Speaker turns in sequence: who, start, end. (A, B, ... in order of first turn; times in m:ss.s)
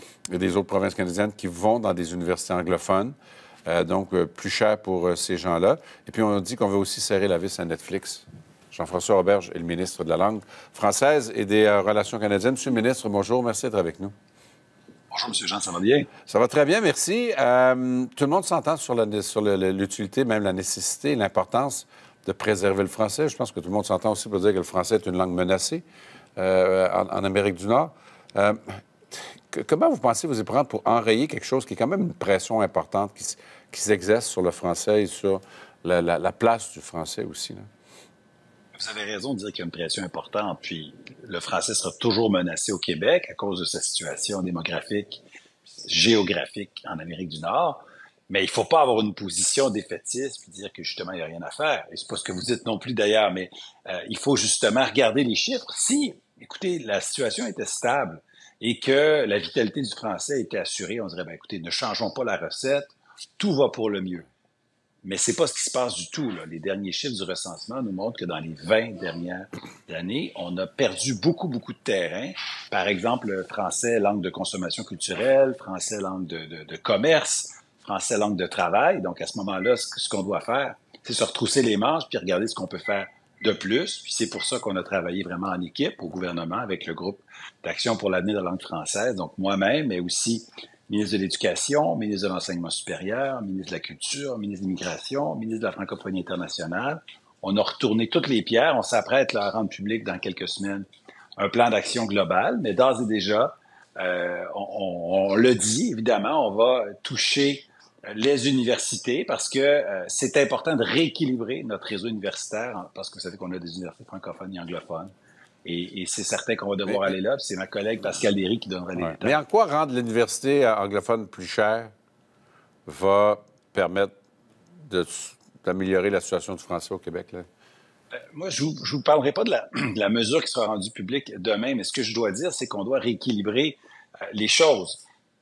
0:00.3-0:03.2 A
0:03.7-0:14.1 A
0:15.1-0:16.1 B
0:16.3-0:25.8 A
0:26.4-0:37.7 A
0:38.8-0:45.2 B
0:45.8-1:04.3 B
1:05.0-1:40.8 B
1:41.4-1:55.1 B
1:55.6-1:59.4 B
1:56.9-1:57.1 A
1:59.0-2:01.9 A
2:02.8-2:04.1 A
2:04.9-2:07.4 A
2:08.3-2:13.8 B
2:14.3-2:15.0 B